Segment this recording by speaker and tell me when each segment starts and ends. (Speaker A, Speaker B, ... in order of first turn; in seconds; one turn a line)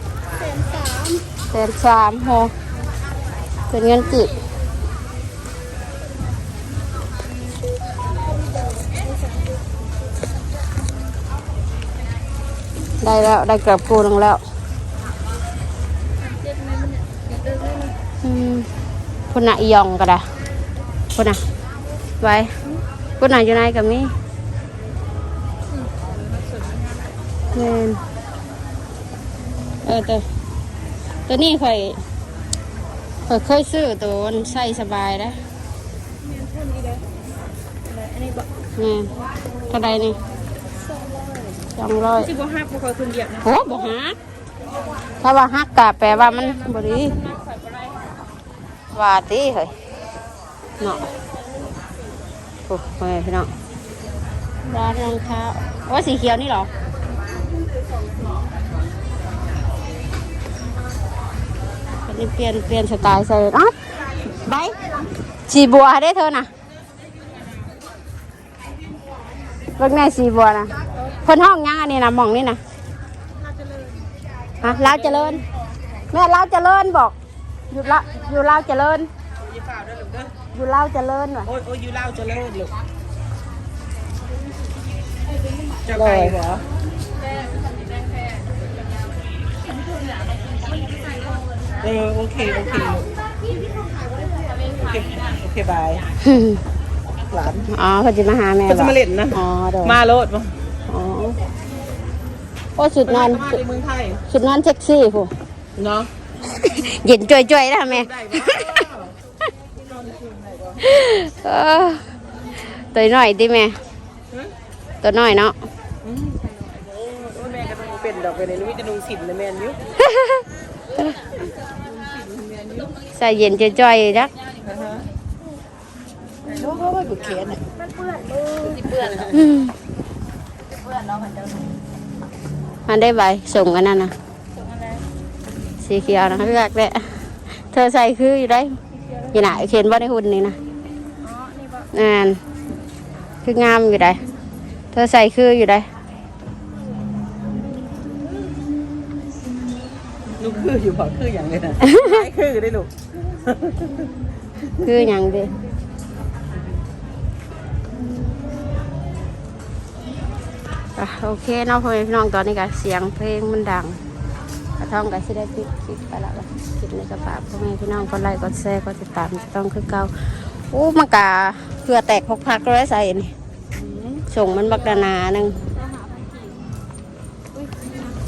Speaker A: 0.4-1.3
Speaker B: 1.5-2.5
Speaker B: 3.7-4.3
Speaker A: 8.7-9.6
Speaker B: 13.0-14.4
Speaker A: 16.2-17.9
Speaker B: 18.2-18.7
Speaker B: 19.3-20.2
Speaker B: 21.1-21.4
Speaker B: 22.2-22.5
Speaker B: 23.2-24.1
Speaker A: 25.8-26.9
Speaker B: 27.5-28.0
Speaker B: 29.8-30.2
Speaker B: 31.3-32.0
Speaker B: 33.3-35.4
Speaker A: 36.2-37.0
Speaker A: 37.9-38.5
Speaker B: 38.8-39.1
Speaker B: 39.7-40.2
Speaker A: 40.7-41.7
Speaker B: 41.8-42.3
Speaker A: 42.2-43.5
Speaker B: 43.4-44.2
Speaker B: 45.2-47.2
Speaker A: 46.3-48.1
Speaker B: 48.9-49.7
Speaker B: 50.8-51.1
Speaker B: 52.7-53.5
Speaker B: 54.6-56.7
Speaker B: 62.1-63.7
Speaker B: 64.3-64.8
Speaker B: 65.5-66.5
Speaker B: 69.8-72.6
Speaker C: 73.6-74.1
Speaker B: 74.6-75.4
Speaker C: 74.6-75.4
Speaker B: 76.1-77.2
Speaker B: 77.7-79.1
Speaker C: 79.4-80.3
Speaker B: 80.5-81.5
Speaker C: 81.5-82.8
Speaker C: 85.8-86.7
Speaker B: 85.9-86.4
Speaker A: 87.3-88.4
Speaker A: 90.5-91.7
Speaker C: 91.8-93.1
Speaker A: 93.5-94.7
Speaker C: 94.7-96.0
Speaker B: 96.2-96.6
Speaker C: 97.3-97.7
Speaker B: 97.7-100.0
Speaker C: 98.7-100.5
Speaker B: 100.9-101.4
Speaker B: 102.8-103.6
Speaker C: 103.1-104.2
Speaker B: 104.3-105.3
Speaker C: 105.8-106.1
Speaker B: 106.4-108.9
Speaker C: 107.9-109.1
Speaker C: 109.8-110.8
Speaker B: 110.8-112.0
Speaker B: 112.8-113.8
Speaker B: 115.0-115.5
Speaker C: 116.0-116.4
Speaker C: 117.0-119.8
Speaker B: 120.0-120.4
Speaker C: 121.8-123.0
Speaker B: 123.1-124.3
Speaker C: 124.6-125.1
Speaker C: 126.5-127.6
Speaker A: 127.8-129.3
Speaker C: 128.7-129.3
Speaker B: 129.3-129.7
Speaker A: 131.0-131.6
Speaker B: 132.9-134.1
Speaker A: 134.5-135.1
Speaker B: 135.8-138.8
Speaker B: 139.3-140.6
Speaker A: 141.2-141.9
Speaker B: 141.9-142.4
Speaker B: 143.4-144.2
Speaker B: 144.9-145.9
Speaker C: 150.4-152.9
Speaker B: 151.8-152.2
Speaker C: 153.5-154.1
Speaker B: 154.8-155.5
Speaker B: 161.0-164.0
Speaker B: 164.8-173.3
Speaker C: 173.7-174.3
Speaker B: 174.3-175.6
Speaker A: 174.6-175.1
Speaker A: 175.6-176.6
Speaker A: 177.6-178.1